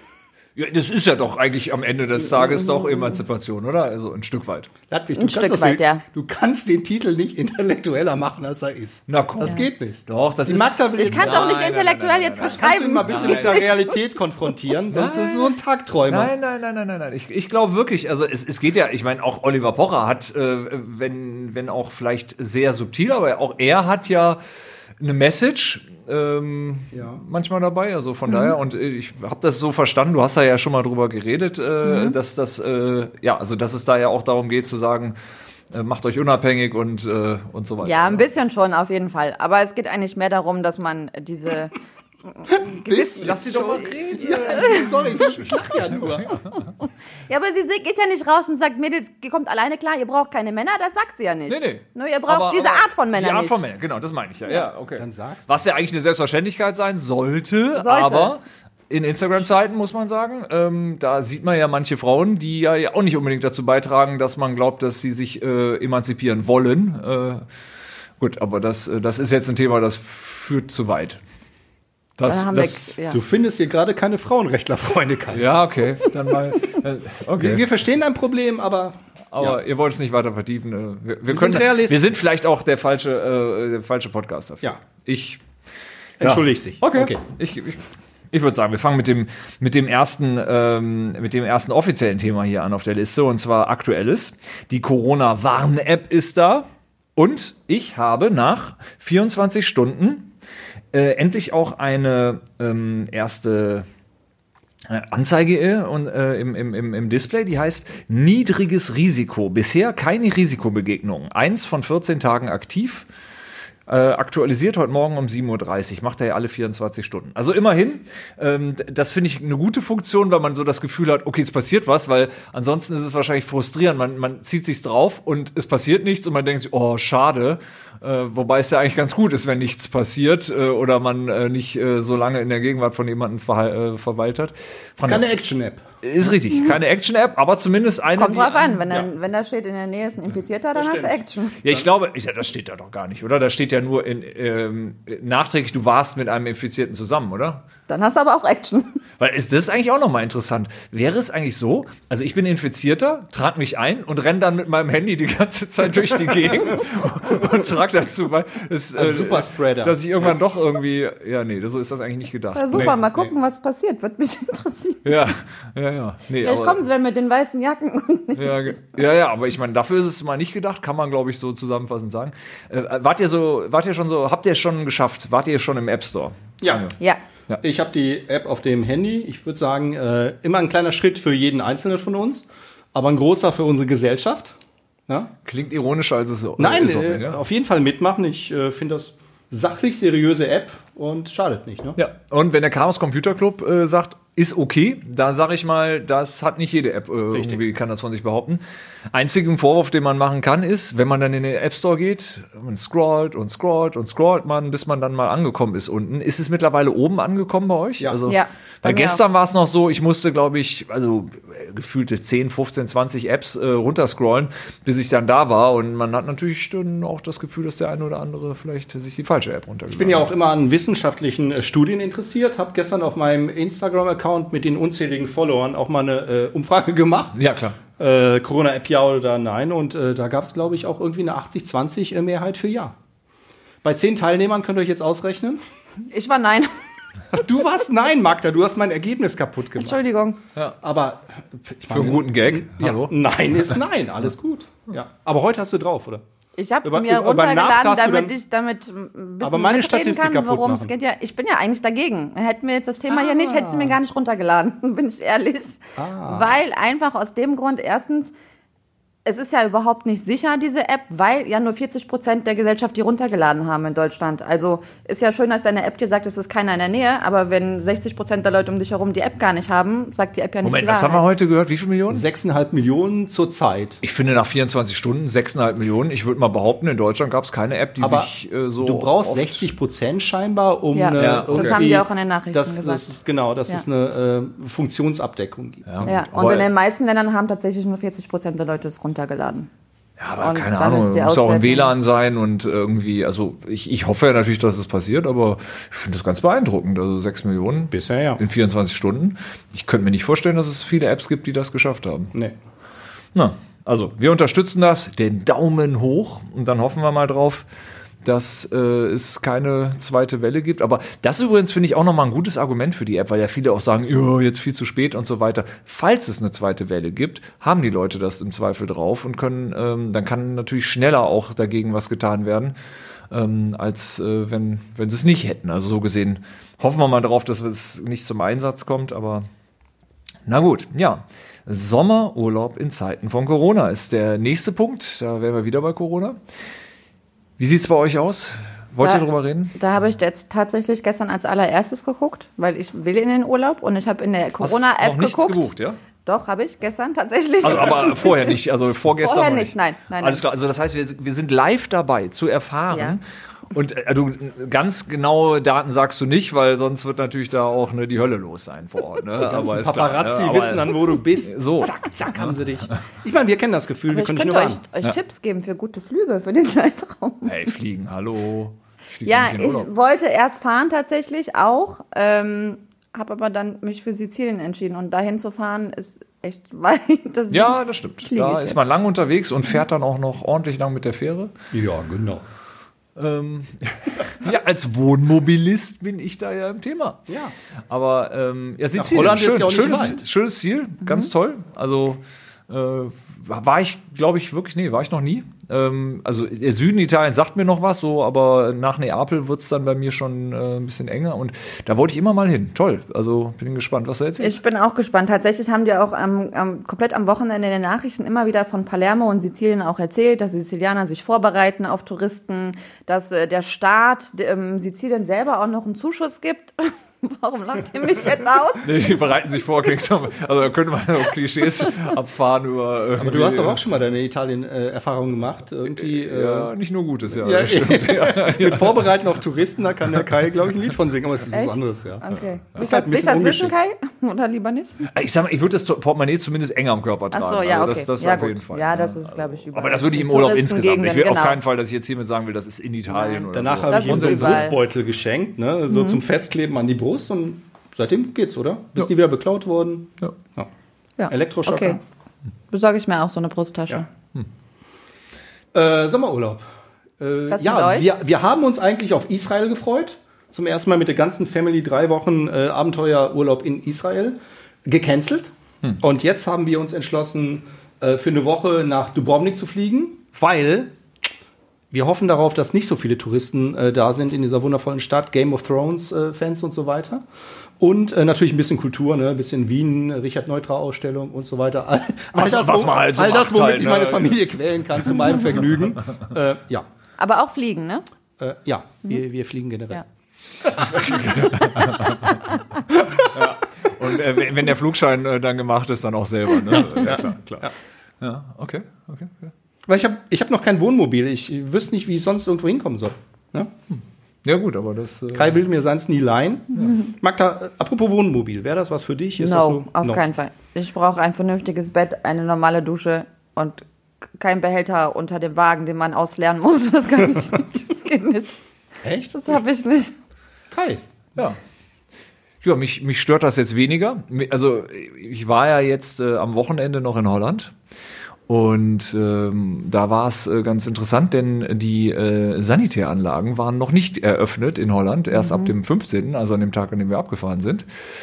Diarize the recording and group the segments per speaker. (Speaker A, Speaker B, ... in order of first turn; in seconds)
Speaker A: 0.6-4.7, 9.1-13.7, 14.9-15.5, 16.1-24.4, 25.0-35.1, 35.7-38.2, 43.2-45.4, 46.1-46.7, 51.5-67.4, 68.2-71.2, 72.2-72.9, 75.3-77.6, 79.3-85.4, 86.2-100.3, 100.9-103.9, 104.8-113.1, 113.9-135.2, 136.0-138.8, 141.6-147.6, 149.2-163.0, 165.0-166.8, 168.3-176.9, 185.4-187.4, 192.0-198.6, 199.1-220.3, 227.3-227.8, 241.9-243.1, 270.6-272.2, 274.0-279.7, 281.2-281.8, 285.9-286.7, 290.2-302.3, 303.3-307.6, 308.2-322.8, 323.3-329.5, 330.4-336.4, 337.6-339.7, 344.6-346.0, 347.6-362.5, 367.4-369.9, 377.5-381.5, 383.1-387.2, 387.9-404.6, 418.8-423.8, 425.9-429.0, 435.1-444.7, 482.4-484.4, 490.6-492.4, 493.1-497.7, 498.2-499.5, 503.9-505.6, 522.6-527.7, 528.5-537.9
Speaker B: 2.7-3.1, 5.2-6.0, 11.0-14.0, 28.3-28.6, 31.8-32.2, 37.8-41.7, 42.4-44.9, 47.3-53.6, 57.8-58.3, 72.2-73.2, 138.2-141.6, 147.9-149.0, 162.5-165.1, 166.4-169.0, 208.3-209.2, 236.1-236.7, 239.8-240.4, 246.6-258.3, 259.2-271.2, 280.9-283.2, 286.0-289.7, 290.4-291.9, 339.0-345.7, 346.2-348.5, 349.2-350.4, 352.9-353.2, 364.1-367.6, 369.2-378.8, 391.0-391.3, 404.4-418.9, 431.5-435.0, 437.3-441.6, 443.1-444.8, 445.9-446.2, 451.2-452.0, 452.7-454.1, 457.5-458.1, 487.2-488.0, 509.4-513.8, 514.4-518.6, 519.3-520.1, 535.3-535.7
Speaker C: 4.9-11.6, 12.4-16.3, 26.9-27.2, 42.6-46.3, 55.0-55.6, 73.1-75.5, 77.3-79.6, 81.3-82.0, 86.2-87.2, 135.0-135.8, 140.7-141.8, 158.9-160.0, 176.6-176.9, 177.6-184.6, 186.6-192.0, 197.3-197.6, 219.9-227.4, 228.0-232.9, 233.8-235.6, 237.3-240.0, 240.8-246.2, 246.8-248.3, 249.4-250.9, 253.1-254.0, 256.0-256.6, 272.1-274.0, 278.0-286.1, 297.9-298.4, 359.4-364.8, 381.7-382.4, 387.3-387.5, 388.9-390.2, 423.2-426.7, 427.3-432.2, 432.7-433.7, 443.5-450.7, 451.3-452.0, 455.7-456.6, 457.2-470.9, 471.9-477.2, 477.8-486.9, 488.4-490.0, 492.9-493.2, 496.9-497.7, 499.9-503.7, 505.3-510.2, 519.0-519.6, 520.7-521.0